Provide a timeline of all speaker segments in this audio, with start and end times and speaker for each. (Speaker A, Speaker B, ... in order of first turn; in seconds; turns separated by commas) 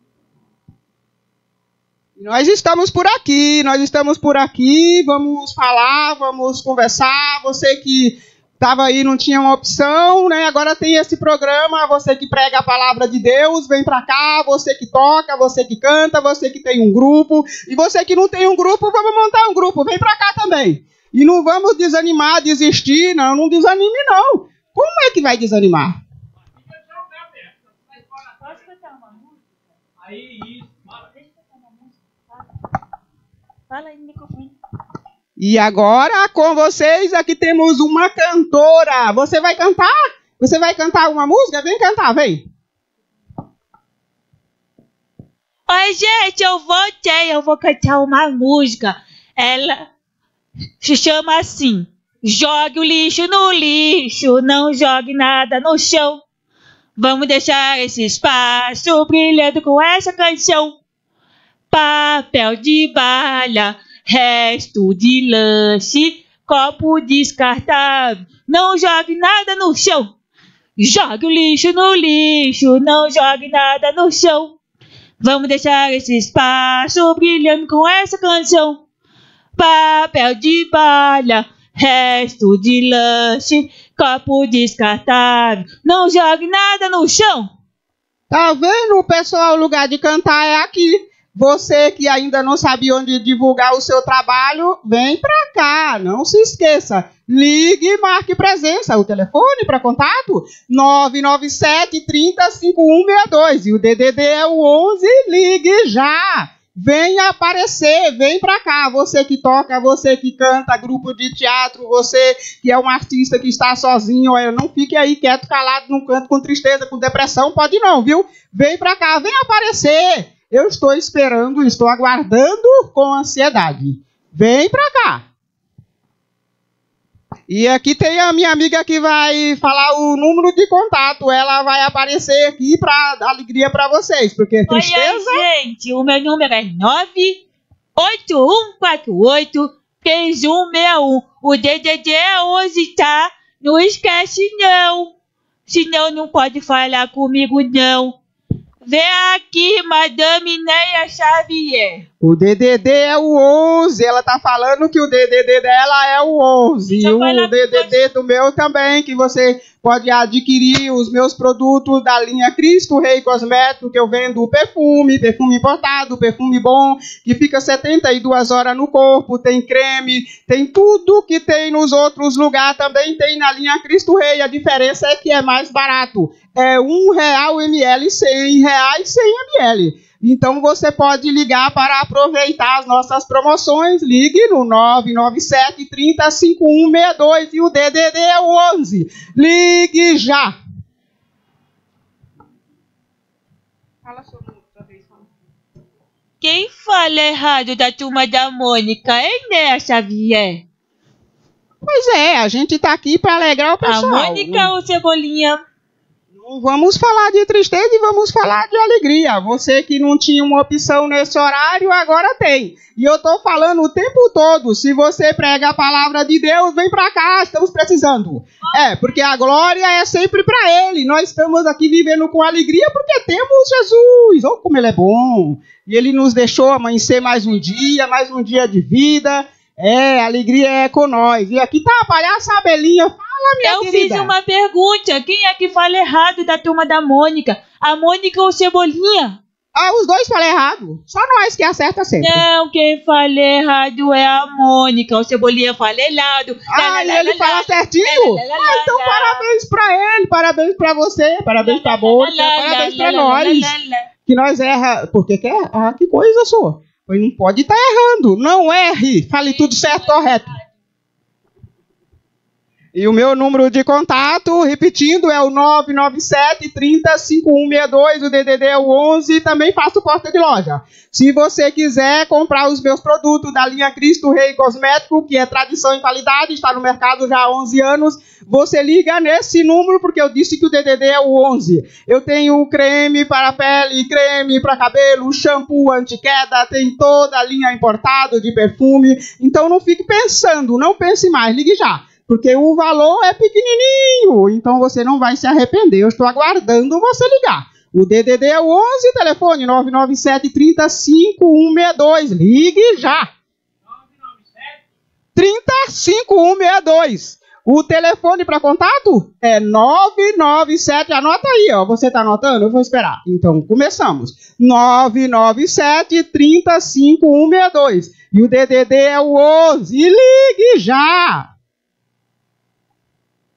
Speaker A: 2.2-26.0, Speaker B: 28.4-29.3, Speaker B: 31.4-31.9, Speaker B: 33.7-34.5, Speaker A: 35.4-42.5, Speaker B: 45.7-49.9, Speaker B: 50.8-56.2, Speaker B: 57.0-60.8, Speaker B: 61.7-70.1, Speaker B: 70.8-74.6, Speaker B: 75.2-78.8, Speaker B: 79.6-87.5, Speaker A: 88.3-125.2, Speaker A: 127.5-135.4, Speaker B: 134.7-137.4, Speaker B: 138.0-145.1, Speaker B: 145.7-148.2, Speaker B: 148.8-152.1, Speaker A: 152.2-190.6, Speaker B: 156.9-158.0, Speaker B: 196.4-200.6, Speaker A: 201.8-204.7, Speaker B: 203.8-205.6, Speaker A: 206.4-234.3, Speaker B: 233.6-239.4, Speaker A: 239.8-242.4, Speaker B: 242.2-249.4, Speaker A: 246.7-253.7, Speaker B: 251.6-254.1, Speaker A: 254.3-260.5, Speaker A: 262.9-303.3, Speaker A: 305.4-321.5